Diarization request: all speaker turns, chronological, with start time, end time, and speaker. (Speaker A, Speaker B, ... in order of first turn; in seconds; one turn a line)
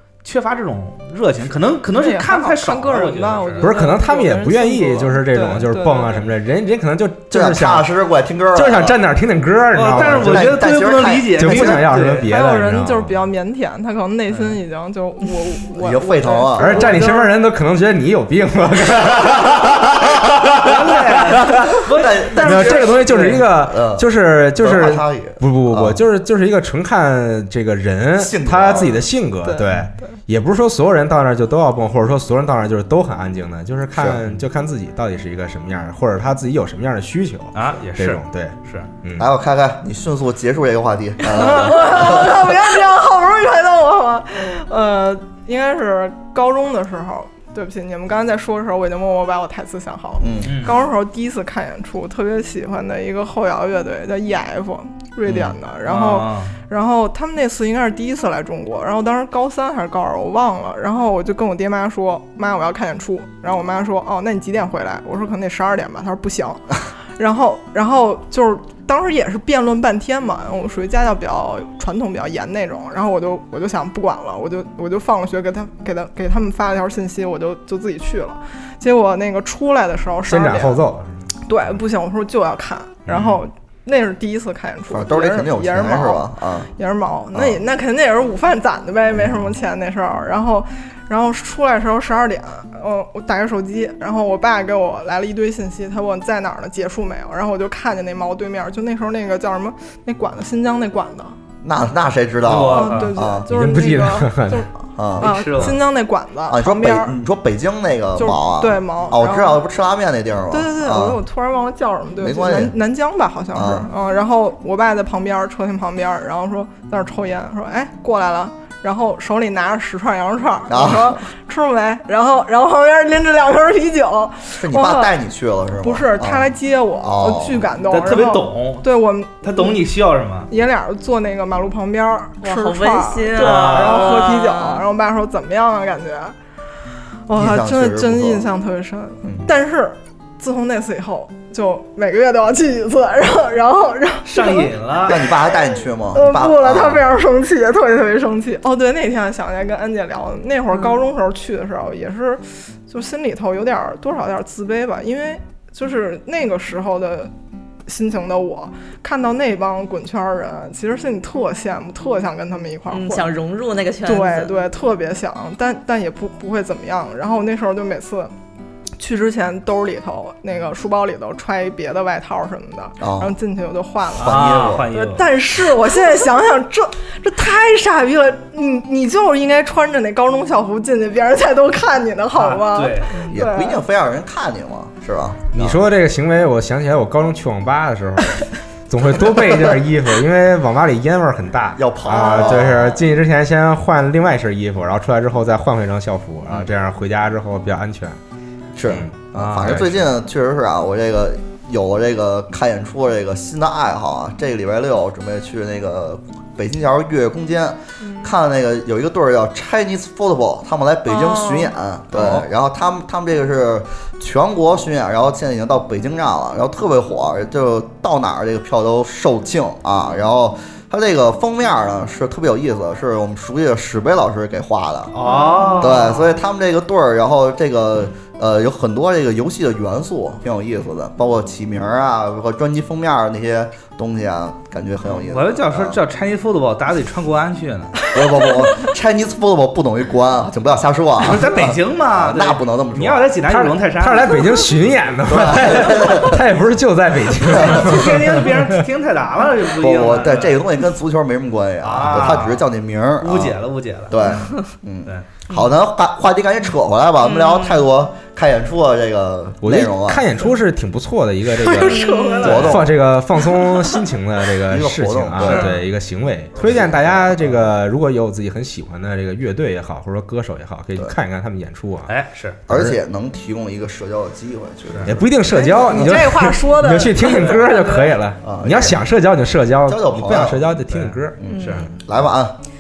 Speaker A: 0.2-3.8
Speaker B: 1.9-6.2
Speaker C: 3.6-7.9
Speaker D: 7.3-9.0
Speaker C: 8.5-10.6
Speaker A: 9.7-12.3
Speaker D: 10.1-11.8
Speaker C: 11.4-13.2
Speaker B: 12.2-17.4
Speaker A: 14.3-14.6
Speaker D: 15.8-17.0
Speaker C: 16.6-21.8
Speaker A: 20.6-23.4
Speaker D: 22.0-26.0
Speaker C: 22.4-39.3
Speaker D: 28.2-29.0
Speaker B: 28.7-29.8
Speaker D: 34.0-34.2
Speaker A: 37.5-38.9
Speaker D: 39.2-42.5
Speaker B: 41.2-80.9
Speaker D: 50.2-50.6
Speaker A: 50.4-50.8
Speaker D: 55.3-55.6
Speaker A: 55.9-56.6
Speaker C: 80.2-81.3
Speaker B: 81.5-101.4
Speaker C: 83.1-83.4
Speaker D: 84.9-86.7
Speaker D: 87.3-87.6
Speaker D: 101.6-103.5
Speaker A: 102.4-103.1
Speaker B: 102.6-107.2
Speaker C: 103.5-104.7
Speaker D: 105.0-105.8
Speaker A: 105.2-105.8
Speaker D: 106.5-111.2
Speaker B: 108.2-109.6
Speaker B: 110.5-125.1
Speaker D: 112.2-112.8
Speaker D: 113.5-113.9
Speaker D: 120.7-121.2
Speaker D: 124.6-126.5
Speaker B: 125.8-129.8
Speaker D: 127.0-127.7
Speaker A: 127.9-128.9
Speaker A: 129.4-130.5
Speaker B: 130.5-136.3
Speaker E: 132.4-134.8
Speaker A: 133.3-134.1
Speaker B: 137.3-145.6
Speaker D: 137.3-138.5
Speaker D: 139.2-139.5
Speaker A: 144.2-145.2
Speaker D: 145.1-147.1
Speaker B: 146.1-157.3
Speaker B: 157.9-163.3
Speaker E: 162.9-164.6
Speaker B: 164.1-168.3
Speaker B: 169.0-183.8
Speaker D: 173.0-173.3
Speaker D: 174.2-174.9
Speaker A: 174.2-175.3
Speaker A: 182.3-183.3
Speaker D: 183.3-185.8
Speaker C: 185.5-198.2
Speaker D: 191.8-192.9
Speaker B: 192.1-192.9
Speaker D: 198.8-225.1
Speaker C: 198.9-200.0
Speaker A: 199.3-199.8
Speaker B: 208.0-208.3
Speaker B: 211.1-212.3
Speaker A: 225.1-226.3
Speaker B: 225.2-226.0
Speaker D: 225.8-236.0
Speaker A: 235.3-238.0
Speaker D: 238.1-243.3
Speaker A: 241.2-244.4
Speaker C: 243.5-248.8
Speaker D: 245.3-246.4
Speaker D: 247.5-247.9
Speaker A: 247.7-250.6
Speaker D: 249.8-260.3
Speaker A: 251.8-252.7
Speaker A: 253.2-254.4
Speaker E: 257.2-257.9
Speaker C: 259.6-272.1
Speaker B: 261.5-262.8
Speaker E: 261.8-262.6
Speaker A: 262.4-262.8
Speaker D: 262.4-262.9
Speaker B: 263.4-264.1
Speaker D: 264.7-265.7
Speaker A: 265.4-265.8
Speaker D: 266.6-267.3
Speaker A: 272.1-272.6
Speaker C: 272.7-273.0
Speaker D: 272.7-275.3
Speaker A: 274.9-275.1
Speaker C: 275.1-281.4
Speaker B: 275.5-278.2
Speaker A: 277.2-277.6
Speaker D: 278.4-279.0
Speaker D: 279.9-280.6
Speaker A: 280.9-281.9
Speaker D: 281.4-282.6
Speaker E: 281.5-281.9